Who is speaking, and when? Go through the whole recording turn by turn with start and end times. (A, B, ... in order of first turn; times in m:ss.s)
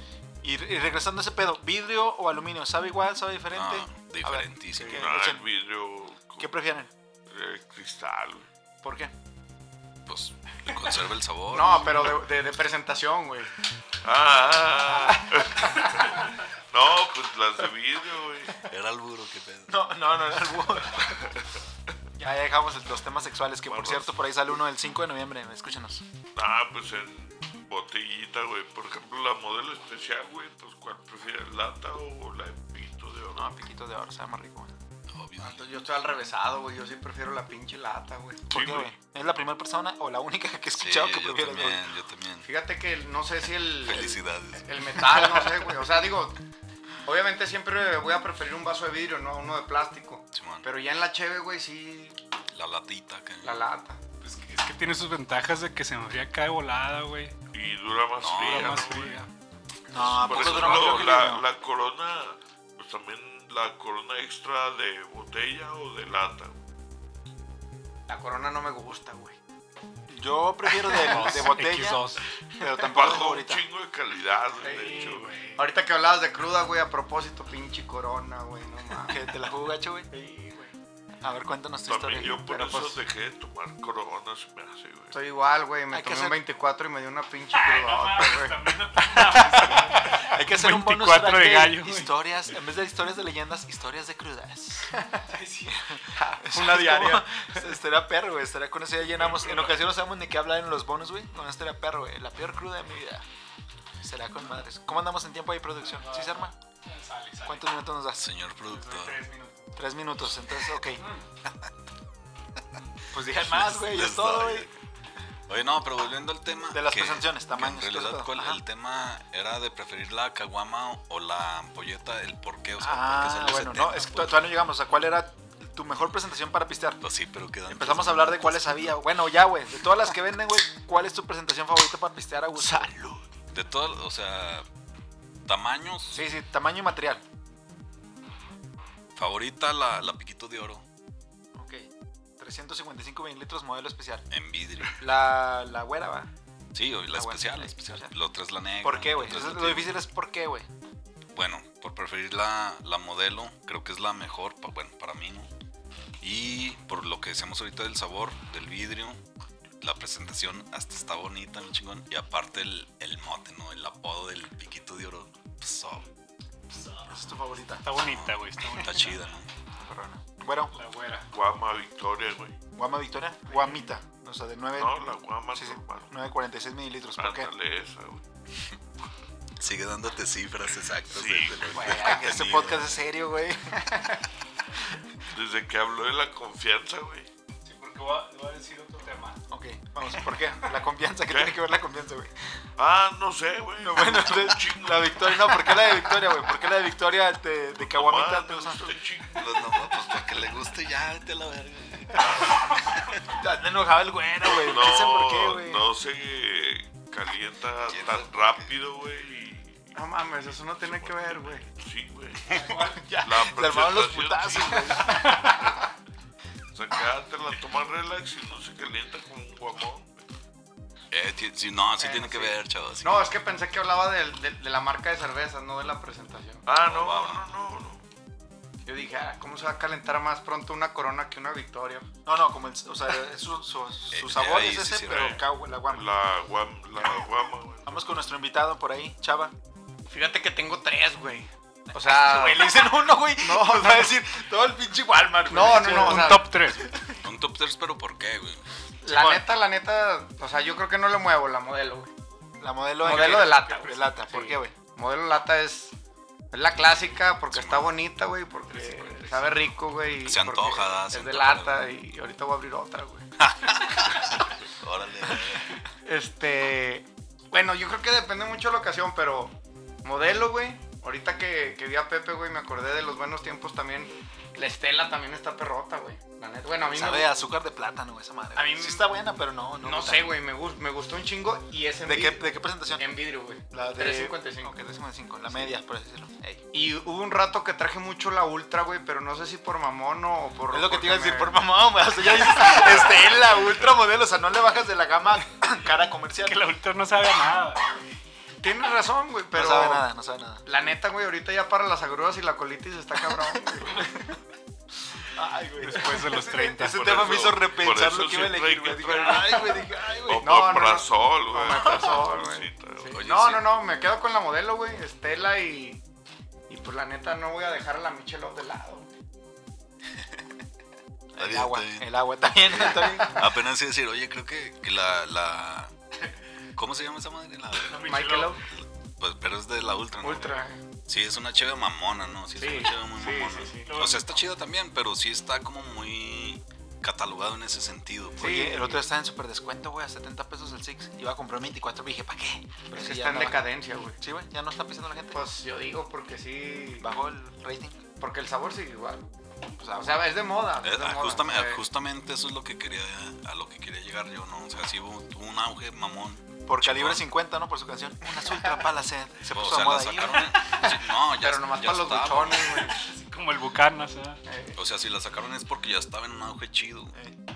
0:00.4-0:05.4 A
0:03.5-0:05.1 B
0:04.9-0:06.5 C
0:06.4-0:06.9 A
0:07.3-0:08.5 C
0:08.8-0:09.1 A
0:10.1-0:12.2 B
0:11.5-0:13.5 D
0:14.0-0:18.7 C
0:15.1-0:15.9 D
0:18.6-0:19.8 B
0:19.7-0:21.2 A
0:22.2-0:26.0 A
0:23.7-0:24.1 C
0:26.4-0:33.6 C
0:33.4-0:34.7 A
0:35.1-0:35.7 B
0:35.4-0:38.4 D
0:38.5-0:38.9 C
0:38.5-0:41.9 A
0:40.8-0:42.5 B
0:42.4-0:46.4 D
0:43.8-0:44.8 B
0:47.0-0:52.2 D
0:50.3-0:50.7 B
0:52.5-0:53.6 B
0:53.4-0:54.0 D
0:54.2-0:57.4 E
0:57.5-0:59.2 C
0:58.2-0:58.9 B
0:58.4-0:59.3 E
0:59.9-1:01.5 A
1:00.0-1:01.3 B
1:00.0-1:06.6 C
1:08.1-1:09.4 D
1:10.1-1:13.6 A
1:10.9-1:11.3 D
1:10.9-1:12.2 E
1:12.9-1:15.4 C
1:14.6-1:19.3 D
1:14.7-1:15.6 E
1:19.0-1:20.1 A
1:20.1-1:20.7 E
1:21.2-1:22.4 A
1:21.9-1:25.2 C
1:22.2-1:23.0 D
1:25.1-1:30.2 D
1:25.9-1:26.4 A
1:27.5-1:32.1 E
1:30.2-1:34.9 A
1:34.9-1:35.2 D
1:35.3-1:35.7 E
1:35.6-1:43.2 A
1:36.2-1:37.7 D
1:39.2-1:39.7 E
1:44.0-1:46.5 A
1:45.8-1:47.7 E
1:47.5-1:48.2 A
1:48.2-1:49.2 B
1:48.7-1:49.7 E
1:49.8-1:51.0 A
1:53.1-1:54.7 A
1:53.3-1:54.7 B
1:55.5-2:04.5 B
1:56.7-1:58.6 A
2:02.8-2:07.0 A
2:07.0-2:09.0 B
2:07.7-2:13.0 A
2:12.6-2:13.2 D
2:13.5-2:14.7 B
2:15.5-2:16.2 B
2:16.1-2:17.2 A
2:19.2-2:20.8 B
2:21.6-2:21.9 A
2:22.4-2:24.3 A
2:24.3-2:25.0 B
2:25.0-2:26.3 A
2:26.7-2:29.9 B
2:27.1-2:28.2 A
2:28.8-2:30.7 A
2:31.3-2:35.5 B
2:36.2-2:39.2 B
2:39.8-2:46.1 B
2:46.7-2:47.2 E
2:47.1-2:47.9 A
2:47.8-2:49.2 E
2:48.0-2:49.5 B
2:49.8-2:50.8 A
2:50.7-2:51.3 E
2:51.3-2:52.6 C
2:52.8-2:55.0 A
2:54.8-2:56.1 C
2:55.5-2:57.5 A
2:57.2-2:58.2 C
2:59.6-3:03.0 B
3:01.1-3:02.0 C
3:01.7-3:03.9 A
3:03.9-3:04.2 D
3:05.3-3:07.3 C
3:07.6-3:09.4 E
3:09.5-3:12.4 A
3:11.3-3:11.6 C
3:12.8-3:15.9 C
3:13.8-3:19.0 A
3:17.7-3:19.9 C
3:19.4-3:23.2 B
3:23.3-3:25.8 A
3:24.5-3:30.0 C
3:27.9-3:28.7 B
3:30.0-3:31.7 D
3:30.5-3:35.8 C
3:32.5-3:32.8 B
3:32.7-3:33.0 D
3:32.8-3:35.4 A
3:34.9-3:35.7 D
3:36.7-3:40.2 C
3:41.1-3:43.3 B
3:42.0-3:46.7 D
3:46.7-3:48.0 C
3:46.8-3:47.5 B
3:48.9-3:52.1 D
3:52.3-3:56.1 A
3:54.1-3:55.4 B
3:55.1-3:57.9 C
3:57.8-3:59.5 A
4:00.1-4:04.1 D
4:01.9-4:07.2 A
4:05.5-4:06.5 D
4:05.7-4:07.0 E
4:07.1-4:08.6 B
4:09.0-4:12.1 D
4:09.1-4:09.5 A
4:12.6-4:14.8 A
4:13.0-4:15.9 D
4:13.0-4:14.0 E
4:16.5-4:23.3 D
4:17.5-4:18.0 B
4:18.7-4:19.7 E
4:20.2-4:21.8 B
4:23.4-4:25.8 B
4:26.0-4:37.3 D
4:36.9-4:40.3 A
4:38.6-4:39.1 D
4:39.8-4:44.8 D
4:42.1-4:43.0 A
4:43.7-4:46.6 A
4:46.7-4:51.6 D
4:50.7-4:56.7 A
4:52.4-4:53.3 D
4:56.4-4:58.0 E
4:58.6-5:00.1 D
4:59.5-5:00.6 A
5:00.6-5:04.4 D
5:05.3-5:10.6 A
5:05.8-5:07.1 E
5:06.8-5:13.2 C
5:10.4-5:16.0 D
5:11.7-5:12.2 A
5:13.1-5:13.7 B
5:16.7-5:19.1 D
5:21.3-5:23.5 A
5:21.4-5:22.1 B
5:22.6-5:25.9 B
5:26.8-5:38.5 B
5:27.8-5:28.6 E
5:28.0-5:28.6 D
5:30.2-5:30.8 D
5:32.6-5:34.0 D
5:33.3-5:34.4 E
5:38.4-5:39.1 D
5:38.4-5:43.7 A
5:42.9-5:44.2 D
5:44.2-5:45.5 A
5:45.3-5:47.1 D
5:47.0-5:48.0 A
5:48.2-5:49.2 D
5:49.8-5:50.3 A
5:50.0-5:51.8 D
5:50.8-5:57.2 B
5:56.7-6:00.5 A
5:59.5-6:03.0 B
6:00.6-6:03.1 D
6:03.1-6:04.4 E
6:04.4-6:04.8 D
6:04.8-6:07.2 B